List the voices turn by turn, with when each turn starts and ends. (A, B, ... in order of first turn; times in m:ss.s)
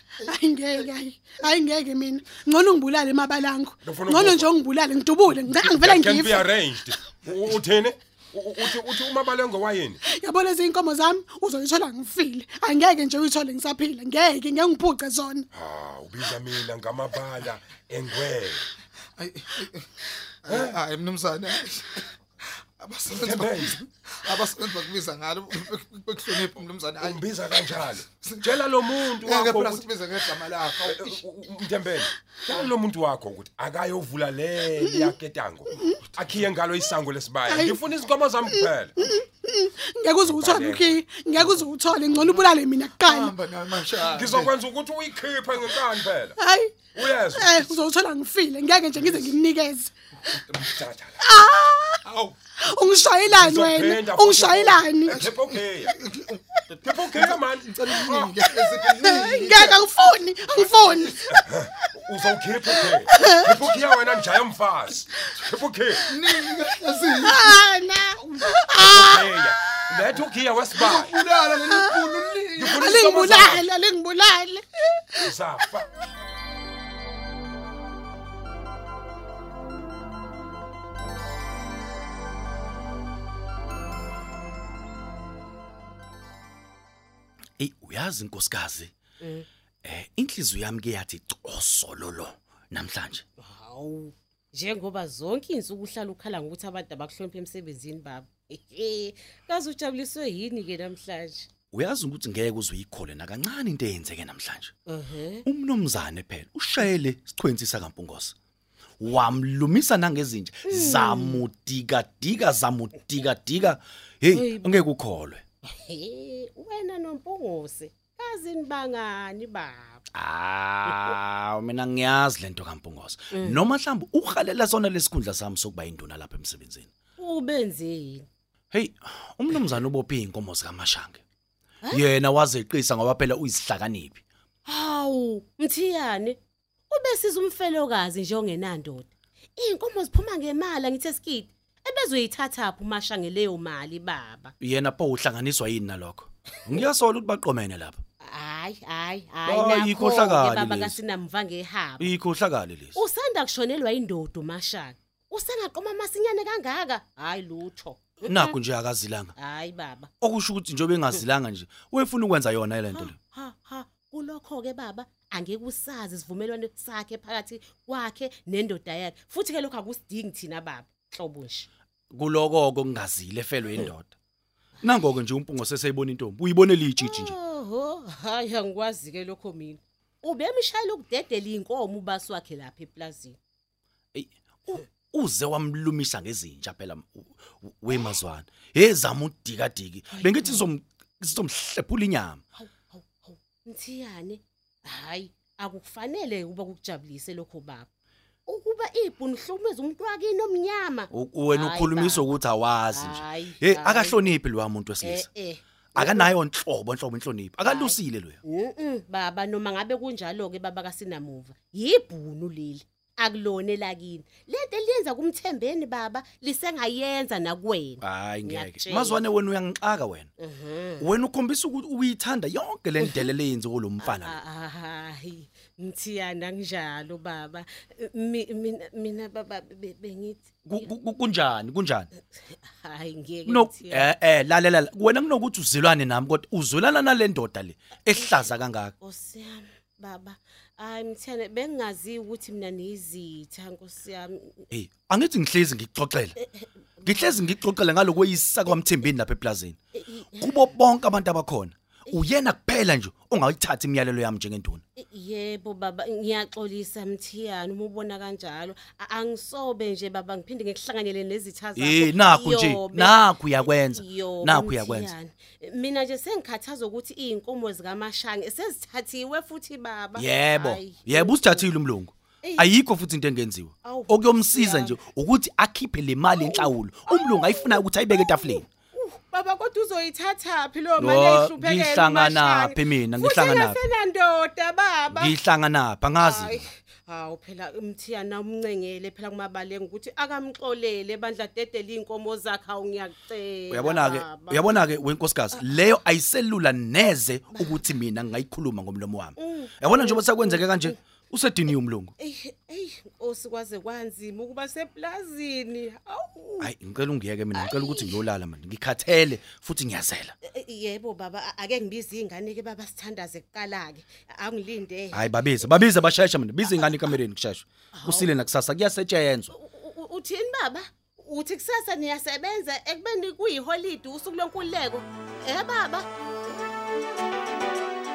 0:00.2-0:06.5 A
0:00.2-0:00.8 B
0:03.8-0:04.5 C
0:05.5-0:10.0 C
0:10.0-0:15.5 A
0:15.5-0:18.6 C
0:19.2-0:19.9 B
0:20.4-0:22.1 B
0:20.5-0:20.8 C
0:22.8-0:27.2 B
0:23.1-0:23.8 C
0:27.0-0:29.9 C
0:28.2-0:28.6 B
0:29.2-0:31.2 B
0:30.7-0:38.9 C
0:34.8-0:35.1 A
0:35.7-0:36.0 A
0:37.4-0:37.8 A
0:38.4-0:43.3 A
0:40.2-0:41.0 C
0:43.0-0:44.5 B
0:44.0-0:46.4 C
0:46.4-0:49.9 A
0:46.9-0:47.7 C
0:50.4-0:51.2 C
0:51.2-0:52.0 A
0:52.6-0:55.3 A
0:53.3-0:56.0 C
0:55.8-0:59.8 B
0:56.8-0:58.4 C
0:58.9-1:02.0 A
1:01.3-1:06.0 C
1:02.7-1:03.8 A
1:06.1-1:07.5 B
1:06.3-1:09.8 A
1:08.8-1:11.1 C
1:10.8-1:12.9 B
1:11.5-1:15.3 A
1:12.6-1:13.7 C
1:15.2-1:15.9 C
1:27.6-1:28.9 D
1:29.2-1:29.5 E
1:29.8-1:33.2 D
1:33.4-1:41.5 E
1:41.7-1:44.7 D
1:44.9-1:45.4 E
1:45.4-1:48.3 D
1:49.0-1:55.4 D
1:50.7-1:51.4 E
1:54.3-1:54.8 E
1:55.6-2:00.0 E
2:00.1-2:06.9 D
2:00.8-2:01.2 E
2:03.3-2:03.6 E
2:07.2-2:08.2 E
2:08.7-2:11.2 D
2:11.9-2:14.2 D
2:14.6-2:16.4 E
2:16.9-2:24.5 E
2:24.6-2:28.0 D
2:28.2-2:32.1 E
2:29.4-2:31.0 D
2:32.0-2:33.0 D
2:32.9-2:38.6 E
2:38.2-2:39.3 D
2:39.4-2:40.1 E
2:40.2-2:43.2 D
2:42.9-2:51.7 E
2:52.1-2:54.1 D
2:54.8-2:57.4 D
2:57.0-3:03.4 E
3:04.1-3:12.4 D
3:10.1-3:10.7 E
3:12.6-3:17.9 E
3:18.4-3:22.4 E
3:21.1-3:25.3 D
3:22.9-3:24.4 E
3:25.0-3:26.3 E
3:26.0-3:28.4 D
3:27.6-3:39.2 E
3:38.0-3:40.3 D
3:40.4-3:41.1 E
3:41.0-3:44.4 D
3:43.0-3:43.2 E
3:44.0-3:50.9 E
3:50.6-3:52.1 D
3:52.5-3:54.1 E
3:53.4-3:58.9 D
3:58.1-4:04.7 E
4:04.7-4:06.4 D
4:06.4-4:07.5 E
4:07.0-4:09.8 D
4:09.9-4:10.7 E
4:10.4-4:14.8 D
4:15.0-4:31.7 E
4:21.8-4:25.1 D
4:30.2-4:38.6 D
4:32.4-4:32.7 E
4:33.8-4:35.0 E
4:36.3-4:45.3 E
4:41.0-4:43.8 D
4:45.1-4:46.6 D
4:46.2-4:54.8 E
4:53.7-5:02.1 D
4:55.5-4:55.9 E
4:57.5-4:57.8 E
4:59.4-5:01.0 E
5:02.2-5:06.7 E
5:06.6-5:10.4 D
5:07.5-5:08.2 E
5:10.4-5:15.9 E
5:15.1-5:19.5 D
5:16.6-5:17.2 E
5:17.9-5:18.3 E
5:19.5-5:26.1 E